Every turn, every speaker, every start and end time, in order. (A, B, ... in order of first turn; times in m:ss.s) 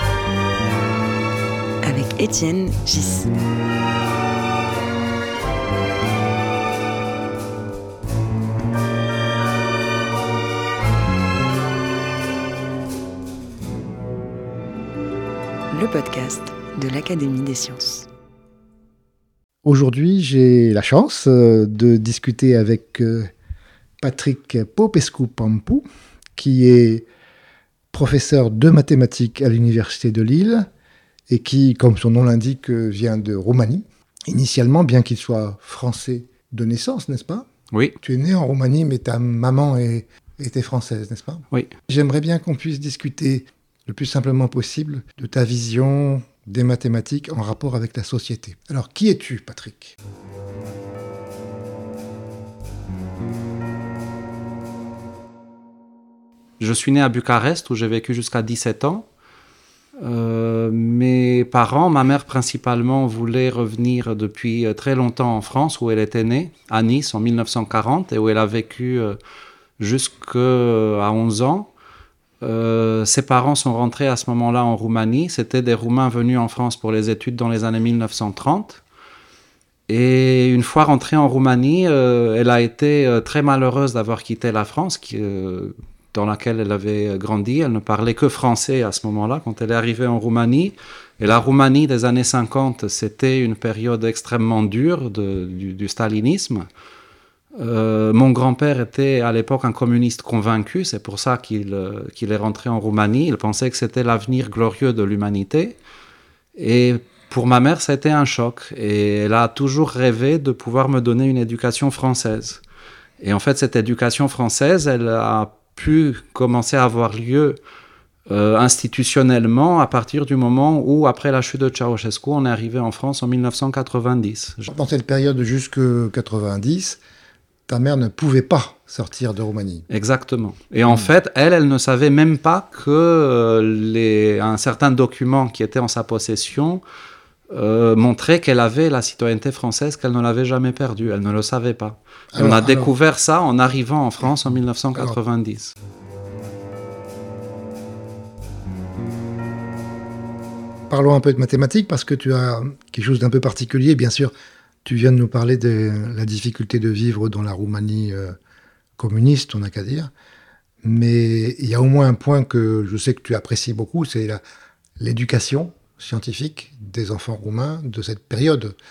0:01.8-0:03.3 A
0:15.7-0:18.1 A
0:19.6-0:23.3 B
0:24.0-0:25.8 B
0:26.4-0:27.0 B
0:27.9-0:30.7 B
0:31.3-0:37.4 B
0:37.7-0:38.0 C
0:38.0-0:50.0 B
0:56.6-0:59.0 C
1:00.0-1:09.2 C
1:09.8-1:11.7 C
1:12.4-1:18.8 C
1:19.9-1:36.7 C
1:37.5-1:45.8 C
1:46.6-1:52.6 C
1:53.2-1:57.6 C
1:58.3-2:04.7 C
2:04.7-2:07.0 B
2:07.7-2:09.9 B
2:09.9-2:16.8 C
2:17.5-2:25.7 C
2:22.3-2:22.9 B
2:30.9-2:34.3 B
2:34.8-2:38.3 B
2:39.0-2:40.1 B
2:40.8-2:44.4 B
2:45.0-2:48.8 B